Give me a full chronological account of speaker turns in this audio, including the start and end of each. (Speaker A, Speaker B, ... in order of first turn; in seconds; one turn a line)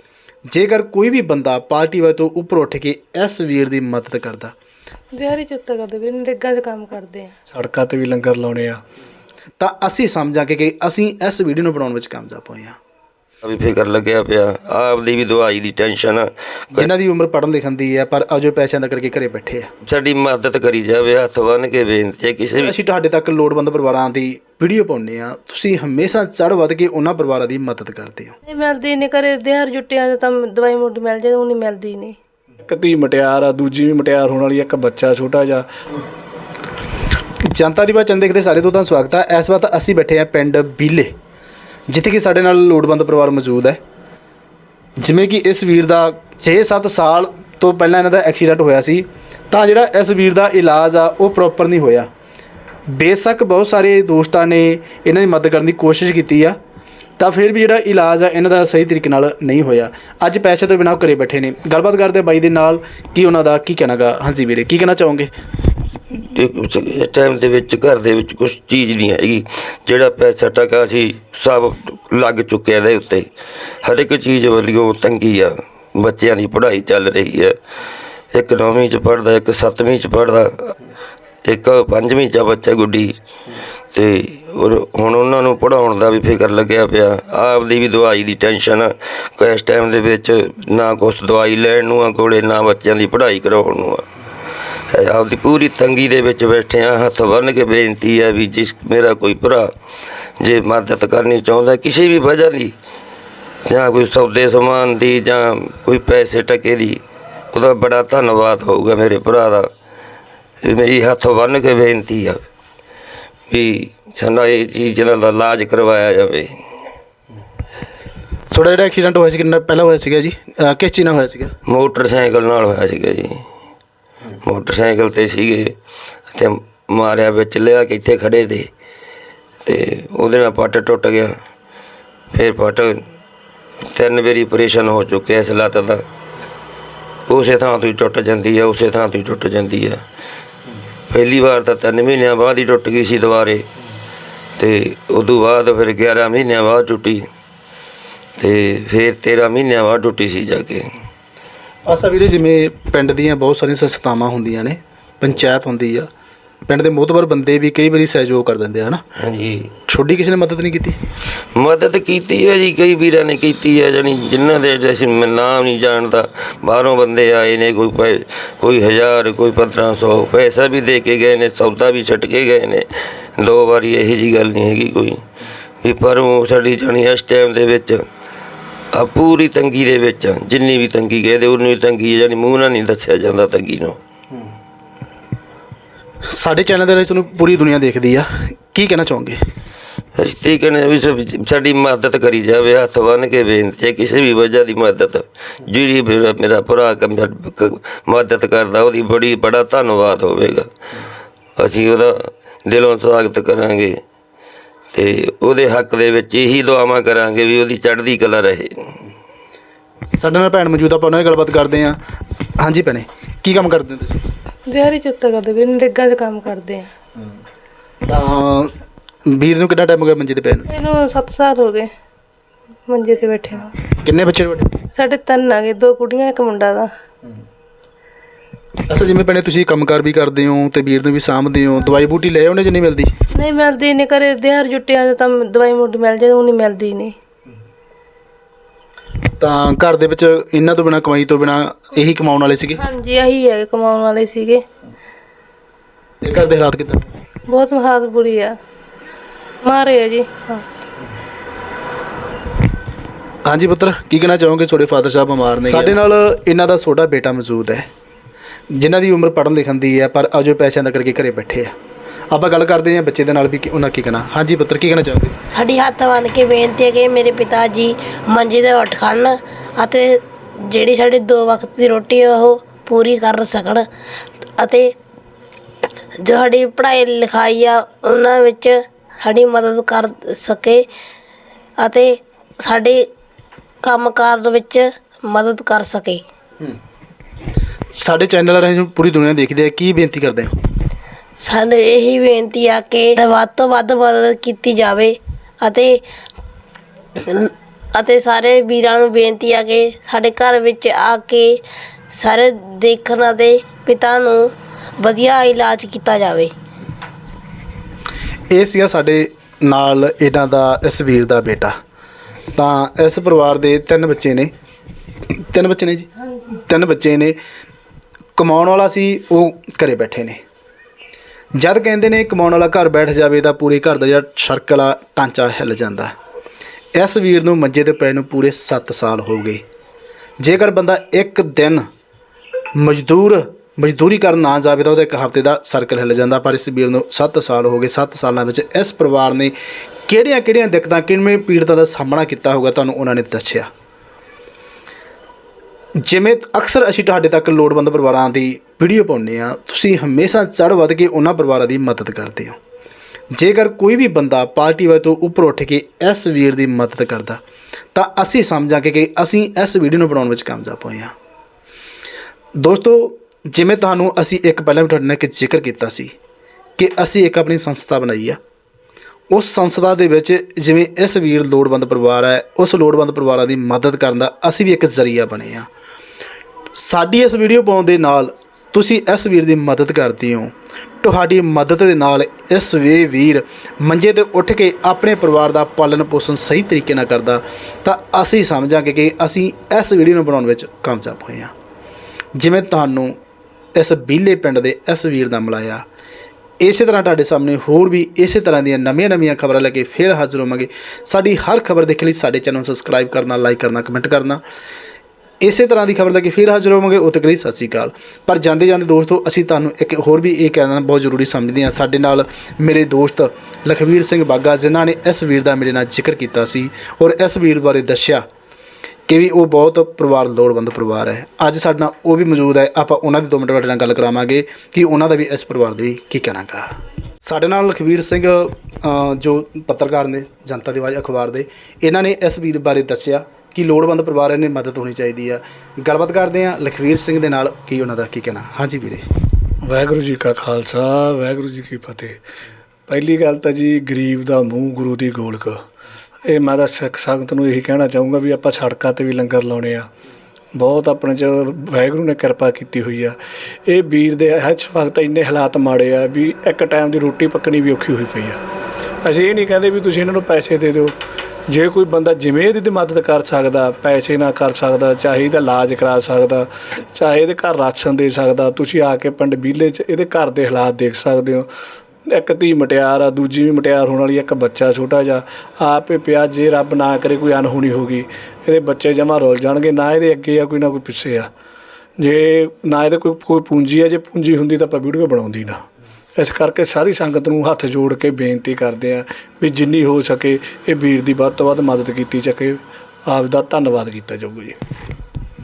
Speaker A: 0.5-4.5
Speaker B: 5.2-7.3
Speaker C: 7.5-8.8
Speaker A: 9.6-12.8
Speaker D: 13.4-16.9
Speaker A: 16.7-19.7
Speaker D: 19.9-22.7
Speaker A: 22.6-28.3
Speaker B: 28.5-32.1
Speaker C: 32.6-35.6
Speaker A: 37.5-41.1
Speaker A: 41.9-43.8
Speaker A: 45.0-52.1
Speaker A: 52.9-56.5
Speaker A: 57.2-65.3
Speaker D: 66.2-73.2
Speaker D: 73.8-77.5
Speaker D: 78.3-80.8
Speaker D: 81.5-83.1
Speaker D: 83.9-94.0
Speaker D: 94.9-99.7
Speaker D: 100.4-102.7
Speaker D: 103.7-107.0
Speaker D: 107.5-109.7
Speaker D: 110.6-112.4
Speaker D: 113.5-116.5
Speaker A: 118.5-121.5
Speaker D: 121.7-123.4
Speaker D: 124.4-125.7
Speaker D: 126.3-128.7
Speaker D: 129.6-131.3
Speaker D: 132.3-133.0
Speaker D: 133.8-136.0
Speaker D: 137.3-140.0
Speaker D: 141.1-143.6
Speaker D: 144.6-147.2
Speaker D: 148.4-150.8
Speaker A: 151.8-156.1
Speaker A: 156.7-159.0
Speaker D: 159.2-159.7
Speaker A: 159.9-160.9
Speaker D: 161.6-175.2
Speaker D: 175.8-178.0
Speaker D: 178.9-184.0
Speaker A: 186.3-189.4
Speaker D: 190.2-200.7
Speaker D: 201.6-203.9
Speaker D: 204.9-209.0
Speaker A: 210.1-212.0
Speaker A: 212.6-214.2
Speaker B: 214.7-216.8
Speaker A: 218.0-218.7
Speaker A: 219.3-220.7
Speaker B: 220.9-221.8
Speaker B: 222.9-223.6
Speaker A: 224.0-224.7
Speaker B: 224.9-226.8
Speaker A: 228.8-233.1
Speaker B: 233.6-237.1
Speaker A: 239.4-242.8
Speaker B: 243.0-244.6
Speaker A: 246.2-247.1
Speaker B: 247.5-248.5
Speaker B: 249.7-250.2
Speaker A: 253.4-257.9
Speaker A: 258.7-261.7
Speaker A: 262.3-265.3
Speaker E: 265.5-273.8
Speaker E: 274.6-274.9
Speaker E: 276.2-280.8
Speaker E: 281.8-283.0
Speaker E: 283.8-286.2
Speaker A: 287.9-290.5
Speaker E: 291.4-296.0
Speaker E: 297.3-301.6
Speaker E: 302.1-304.4
Speaker E: 305.0-306.5
Speaker A: 308.5-311.7
Speaker A: 312.5-314.5
Speaker A: 315.3-317.3
Speaker A: 318.4-320.4
Speaker A: 321.5-326.1
Speaker A: 326.9-329.6
Speaker A: 330.4-331.9
Speaker A: 332.8-339.5
Speaker A: 340.1-343.7
Speaker A: 346.0-352.6
Speaker A: 353.3-357.4
Speaker A: 357.9-361.1
Speaker A: 362.6-366.1
Speaker A: 366.8-368.4
Speaker A: 369.3-375.7
Speaker A: 376.8-380.5
Speaker A: 381.0-391.5
Speaker A: 392.4-393.1
Speaker A: 393.8-395.8
Speaker A: 396.6-404.4
Speaker A: 405.4-418.2
Speaker A: 419.1-426.7
Speaker A: 427.2-439.0
Speaker C: 439.6-442.2
Speaker C: 442.9-445.6
Speaker C: 446.2-449.9
Speaker C: 450.5-453.1
Speaker C: 453.7-458.4
Speaker C: 459.0-460.9
Speaker C: 461.5-471.5
Speaker C: 472.1-481.3
Speaker C: 482.0-485.6
Speaker C: 486.1-494.6